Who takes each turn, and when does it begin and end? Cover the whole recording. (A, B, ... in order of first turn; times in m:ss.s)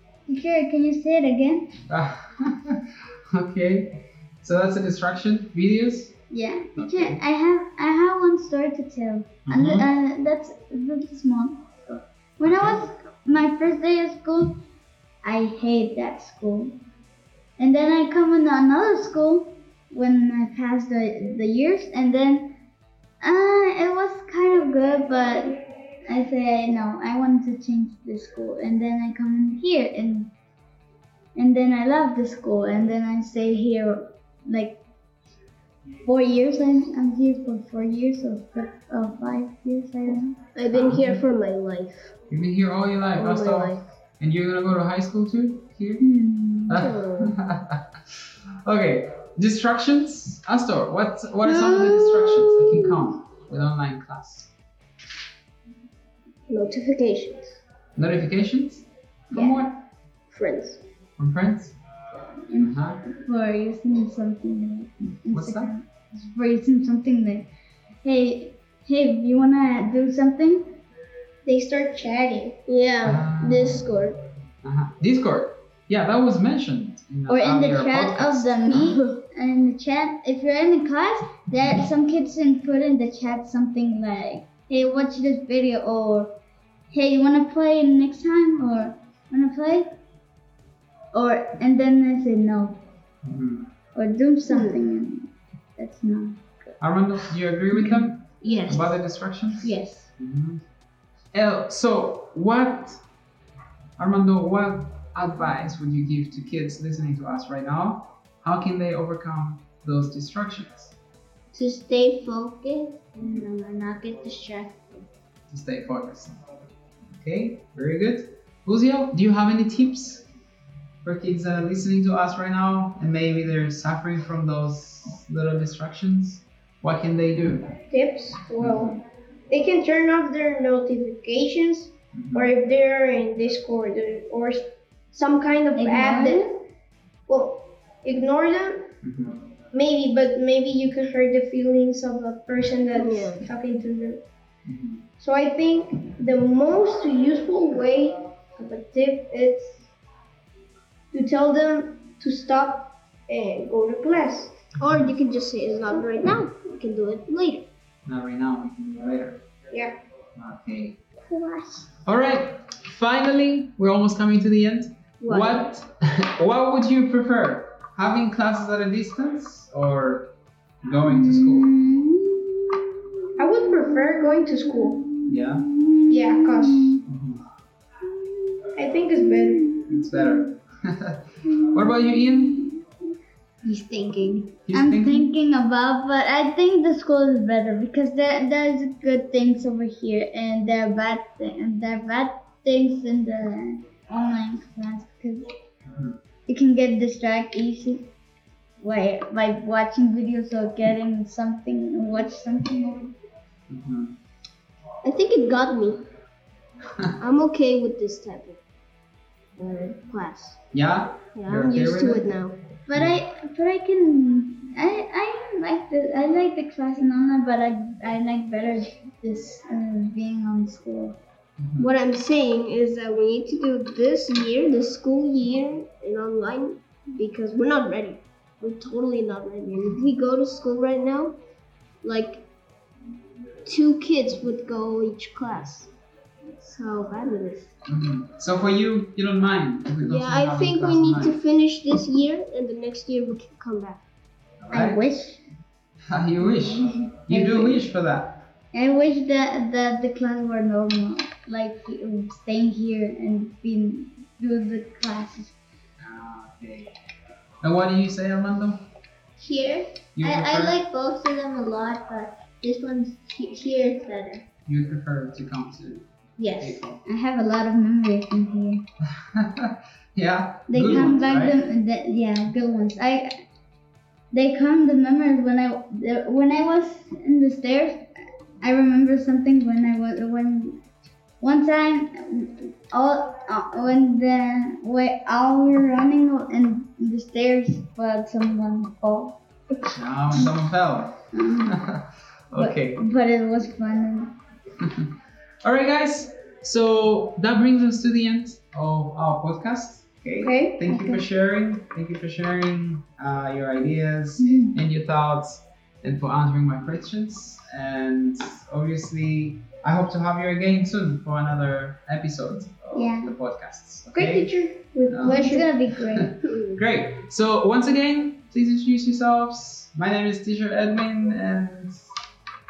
0:00.3-0:01.8 A
0:01.9-0:06.2 B
0:06.3-0:14.6 A
0:06.8-0:07.2 B
0:09.4-0:09.8 B
0:12.4-0:12.8 B
0:15.2-0:16.8 A
0:17.6-0:22.6 A
0:23.2-0:30.3 A
0:31.3-0:34.8 A
0:36.0-0:40.4 A
0:40.5-0:42.2 C
0:40.7-0:41.2 B
0:42.3-0:46.0 B
0:43.2-0:43.8 C
0:46.0-0:46.8 A
0:46.7-0:54.5 B
0:46.8-0:47.4 C
0:51.4-0:53.0 C
0:56.5-0:57.6 C
0:58.0-0:59.8 B
0:59.3-0:59.6 C
1:00.3-1:00.8 C
1:01.2-1:01.7 B
1:02.5-1:07.5 A
1:02.6-1:03.0 B
1:05.3-1:05.7 B
1:08.0-1:10.8 A
1:11.4-1:12.6 D
1:12.7-1:14.2 C
1:13.0-1:13.8 B
1:14.6-1:18.7 B
1:17.3-1:26.3 A
1:18.7-1:19.2 C
1:26.9-1:29.9 A
1:31.1-1:32.8 A
1:33.2-1:33.7 B
1:33.9-1:36.7 A
1:36.8-1:40.6 B
1:38.4-1:39.0 E
1:39.6-1:40.1 E
1:41.3-1:43.0 B
1:44.0-1:50.9 B
1:51.5-1:55.1 E
1:55.5-1:56.4 B
1:57.1-2:00.3 B
2:01.0-2:07.7 B
2:07.9-2:16.5 D
2:08.6-2:09.0 B
2:12.1-2:12.5 B
2:15.8-2:16.6 A
2:17.3-2:18.9 D
2:19.0-2:19.4 B
2:19.7-2:24.2 D
2:22.9-2:23.5 C
2:24.6-2:25.0 B
2:25.2-2:29.9 D
2:31.1-2:34.6 D
2:34.8-2:37.7 C
2:38.0-2:39.4 B
2:40.4-2:41.0 B
2:41.2-2:41.9 E
2:42.0-2:50.3 B
2:45.2-2:45.6 C
2:50.8-2:51.7 B
2:51.0-2:52.7 A
2:53.4-2:55.0 D
2:54.6-2:57.0 A
2:55.2-2:55.6 B
2:56.1-2:57.0 D
2:57.1-2:57.4 B
2:58.8-2:59.8 D
2:59.2-3:00.4 A
2:59.9-3:02.8 B
3:03.6-3:04.5 E
3:04.7-3:05.3 B
3:04.7-3:15.5 A
3:15.9-3:16.2 B
3:16.5-3:18.1 A
3:18.8-3:23.1 A
3:23.7-3:24.1 B
3:25.0-3:26.0 C
3:26.9-3:27.2 B
3:27.2-3:28.6 C
3:29.6-3:30.6 C
3:30.7-3:32.4 B
3:31.3-3:32.6 C
3:32.9-3:41.2 A
3:41.6-3:41.9 B
3:41.8-3:51.4 C
3:52.0-3:52.4 C
3:53.6-3:55.9 C
3:56.6-3:57.8 C
3:57.9-4:01.4 B
4:00.0-4:04.0 C
4:04.6-4:05.0 B
4:04.7-4:05.4 A
4:06.1-4:08.4 B
4:07.3-4:07.9 A
4:08.7-4:15.6 A
4:16.0-4:16.9 B
4:17.6-4:18.8 B
4:19.4-4:24.4 E
4:20.2-4:20.8 B
4:24.7-4:27.0 B
4:26.4-4:26.8 E
4:27.0-4:28.8 A
4:29.1-4:31.6 B
4:30.7-4:33.4 A
4:34.3-4:40.8 A
4:41.4-4:49.4 A
4:49.9-4:53.0 B
4:51.3-4:51.8 A
4:52.5-4:54.3 A
4:54.8-4:55.1 B
4:55.6-5:14.5 B
5:00.4-5:00.8 D
5:00.8-5:01.2 A
5:04.4-5:04.7 A
5:12.9-5:13.3 A
5:14.1-5:15.7 D
5:15.1-5:22.1 B
5:15.1-5:16.4 A
5:16.5-5:16.8 C